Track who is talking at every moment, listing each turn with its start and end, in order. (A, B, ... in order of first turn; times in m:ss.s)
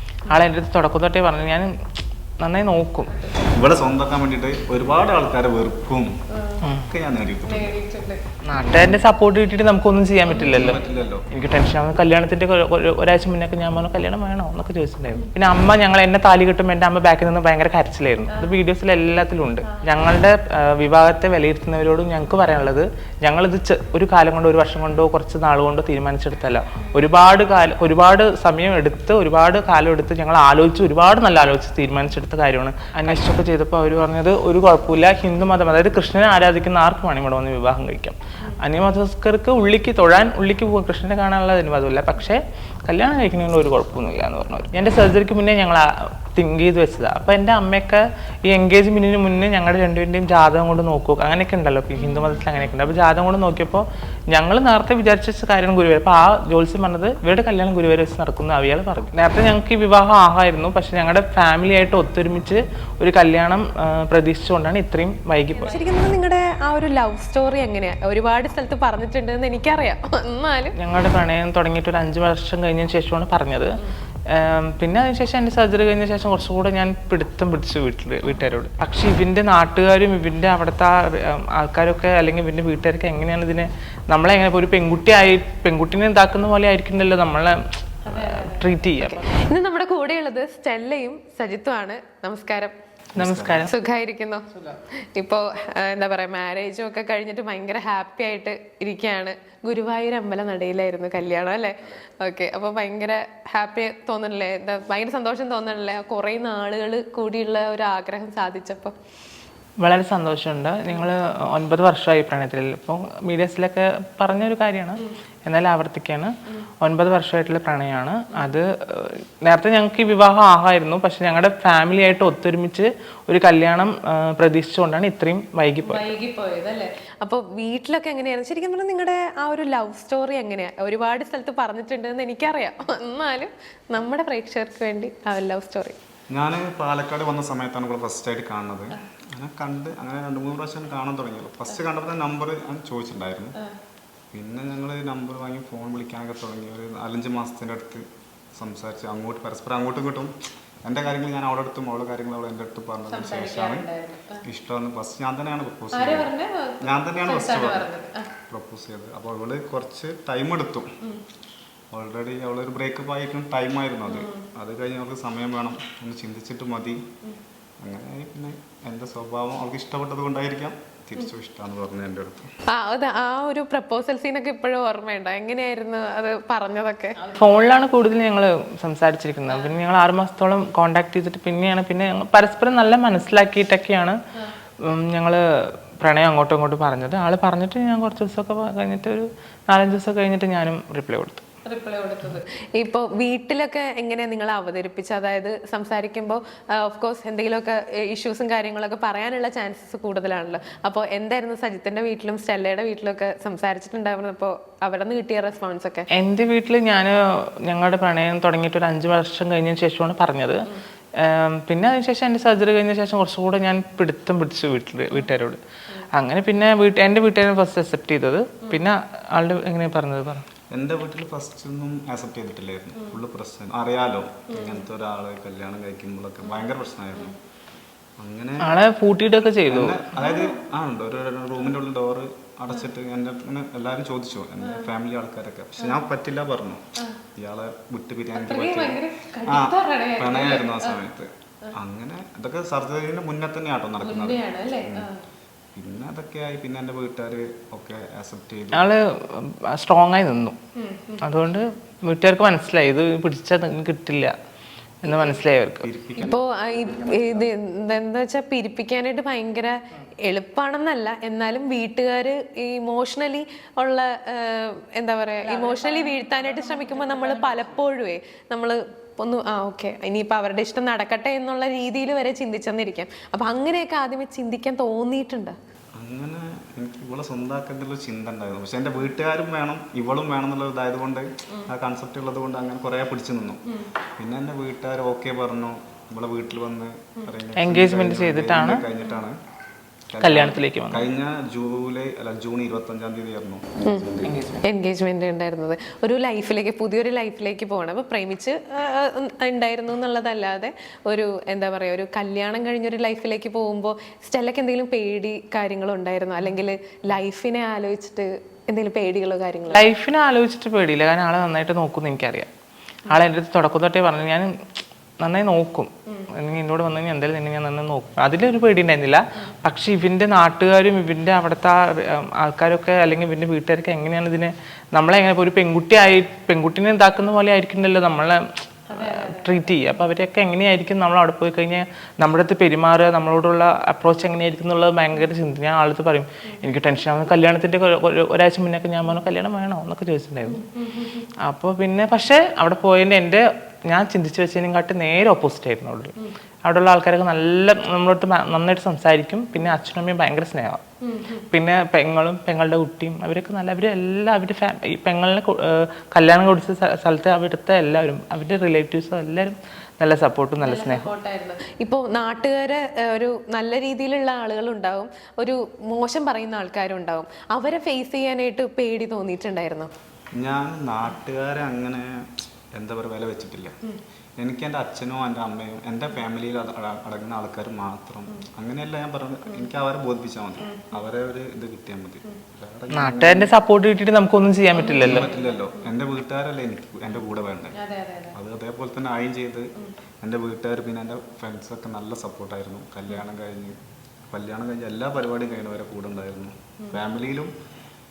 0:00.3-0:01.7 A
0:02.4-0:03.1 A
0:03.5-0:06.1 B
0:06.6-0:06.9 A
0:06.9-0:07.8 B
0:07.4-0:08.2 C
0:08.4-0:10.8 A
0:08.6-0:09.0 B
0:10.3-0:11.0 C
0:10.5-0:11.3 B
0:11.3-1:05.9 A
0:18.3-0:18.6 C
0:52.0-0:52.9 C
1:05.6-1:10.8 C
1:10.8-1:13.8 A
1:14.3-1:29.2 A
1:28.0-1:32.7 C
1:33.2-1:33.7 B
1:33.2-1:33.7 A
1:33.6-1:49.0 C
1:49.8-2:06.1 A
2:05.8-2:16.0 C
2:16.3-2:23.6 B
2:24.3-2:33.9 B
2:33.1-2:34.4 C
2:34.4-2:37.9 B
2:35.9-2:38.3 C
2:38.5-2:40.9 B
2:41.9-2:47.0 B
2:44.1-2:44.5 C
2:47.8-2:52.5 B
2:52.7-2:57.2 C
2:57.2-3:04.2 A
2:59.5-2:59.7 C
3:04.8-3:05.4 A
3:06.0-3:11.4 A
3:11.6-3:26.1 C
3:26.1-3:30.6 A
3:31.2-3:35.6 A
3:36.1-3:40.4 A
3:40.7-3:47.4 B
3:44.5-3:44.8 C
3:48.2-3:48.7 B
3:48.6-3:50.0 A
3:49.7-3:56.8 B
3:50.2-3:50.6 C
3:54.6-3:54.9 C
3:57.4-4:05.1 B
3:58.4-4:01.0 C
4:04.0-4:05.2 C
4:05.8-4:08.9 B
4:08.7-4:10.6 A
4:10.8-4:11.2 C
4:11.2-4:14.3 A
4:15.0-4:15.9 A
4:15.1-4:15.4 C
4:15.8-4:17.5 B
4:16.2-4:35.6 C
4:26.7-4:27.4 A
4:36.0-4:43.6 B
4:44.2-4:49.4 B
4:47.6-4:48.8 A
4:50.1-4:54.3 B
4:50.2-4:51.1 A
4:53.8-5:09.9 C
4:54.2-4:54.6 A
5:09.7-5:12.5 A
5:13.1-5:14.5 A
5:15.2-5:40.6 A
5:28.9-5:29.8 C
5:40.4-5:41.3 C
5:41.4-5:50.8 A
5:51.0-5:51.5 C
5:51.5-6:01.1 A
6:00.6-6:09.9 C
6:10.4-6:13.8 B
6:14.4-6:23.5 B
6:20.6-6:21.0 C
6:22.9-6:25.3 A
6:24.8-6:25.9 C
6:25.0-6:27.8 B
6:27.7-6:28.4 C
6:28.3-6:29.7 B
6:30.2-6:33.8 B
6:34.3-6:37.5 B